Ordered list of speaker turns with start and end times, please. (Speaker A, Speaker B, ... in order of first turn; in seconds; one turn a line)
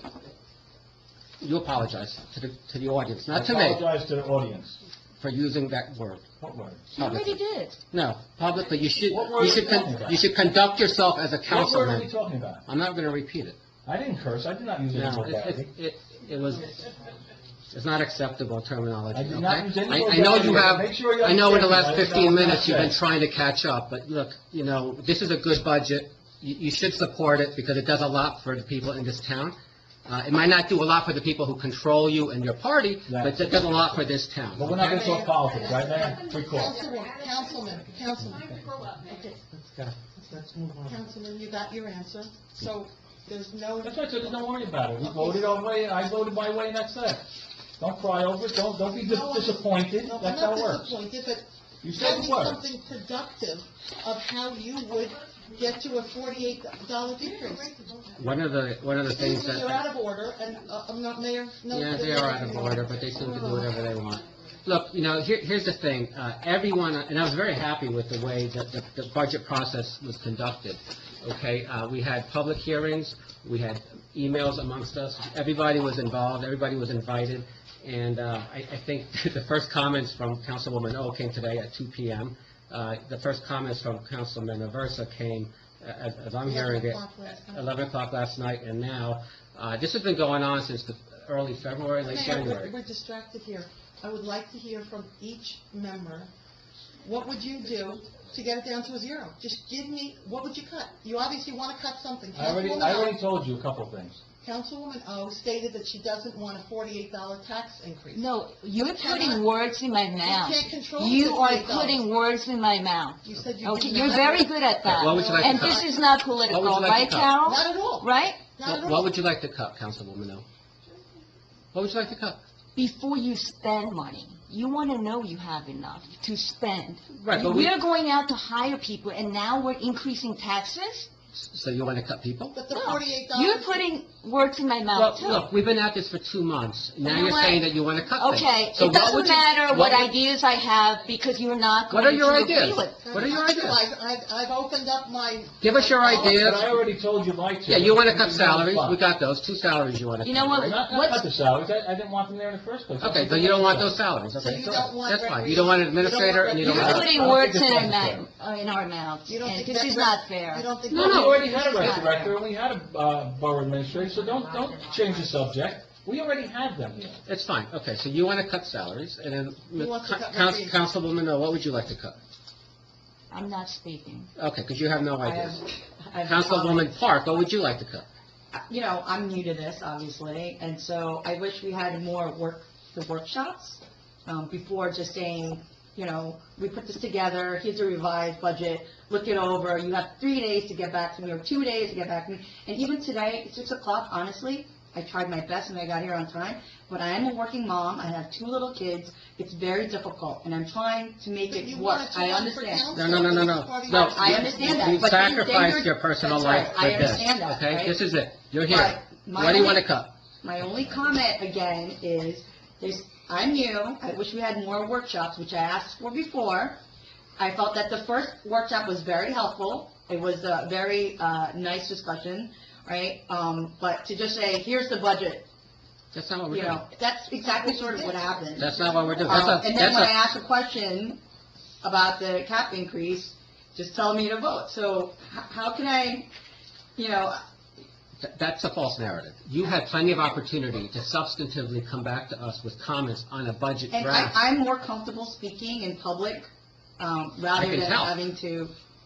Speaker A: 1.4-3.9
Speaker B: 3.3-4.8
Speaker A: 5.2-6.2
Speaker B: 6.4-6.9
Speaker C: 7.0-7.8
Speaker A: 7.0-7.4
Speaker A: 7.9-12.1
Speaker B: 9.1-10.3
Speaker B: 11.5-12.6
Speaker A: 12.7-13.6
Speaker B: 13.8-15.7
Speaker A: 14.9-16.7
Speaker A: 17.7-29.5
Speaker B: 19.1-23.0
Speaker A: 30.1-35.1
Speaker B: 33.1-34.0
Speaker B: 34.5-36.8
Speaker D: 34.8-38.5
Speaker D: 40.8-44.5
Speaker B: 43.8-47.2
Speaker D: 45.0-45.5
Speaker B: 47.8-50.9
Speaker D: 49.0-58.3
Speaker B: 51.8-52.6
Speaker A: 58.2-59.9
Speaker D: 59.1-63.7
Speaker A: 61.7-87.0
Speaker D: 86.4-87.7
Speaker A: 87.5-92.7
Speaker D: 92.0-96.3
Speaker D: 97.0-103.2
Speaker B: 102.3-104.2
Speaker D: 104.4-108.3
Speaker C: 108.1-118.5
Speaker D: 108.9-109.5
Speaker D: 110.2-112.0
Speaker D: 113.2-116.2
Speaker A: 114.8-115.8
Speaker A: 116.4-117.4
Speaker D: 117.3-119.0
Speaker A: 118.6-120.4
Speaker A: 121.7-122.4
Speaker C: 122.8-131.1
Speaker A: 127.1-127.8
Speaker A: 131.4-132.7
Speaker D: 132.5-133.8
Speaker C: 132.7-135.5
Speaker A: 134.9-140.2
Speaker C: 137.0-137.6
Speaker C: 138.2-143.0
Speaker A: 141.9-143.8
Speaker D: 143.0-146.4
Speaker A: 145.6-146.7
Speaker B: 146.1-149.0
Speaker A: 147.7-150.8
Speaker C: 150.2-151.3
Speaker B: 150.5-154.0
Speaker A: 153.0-157.1
Speaker D: 154.4-157.4
Speaker C: 156.6-161.2
Speaker B: 156.6-158.2
Speaker D: 159.3-162.2
Speaker B: 160.9-167.2
Speaker A: 167.2-172.2
Speaker D: 169.7-170.8
Speaker C: 173.3-174.3
Speaker A: 174.4-175.6
Speaker E: 175.2-176.9
Speaker A: 176.2-178.1
Speaker E: 178.5-202.9
Speaker D: 201.5-205.0
Speaker A: 202.9-210.1
Speaker E: 203.9-208.0
Speaker E: 208.7-209.9
Speaker E: 210.4-216.8
Speaker E: 217.4-225.5
Speaker A: 226.1-226.8
Speaker E: 226.5-228.7
Speaker D: 227.4-229.6
Speaker A: 228.6-230.3
Speaker E: 229.2-231.2
Speaker E: 231.8-236.3
Speaker E: 237.0-237.4
Speaker A: 238.2-244.4
Speaker E: 243.9-248.7
Speaker A: 247.5-248.2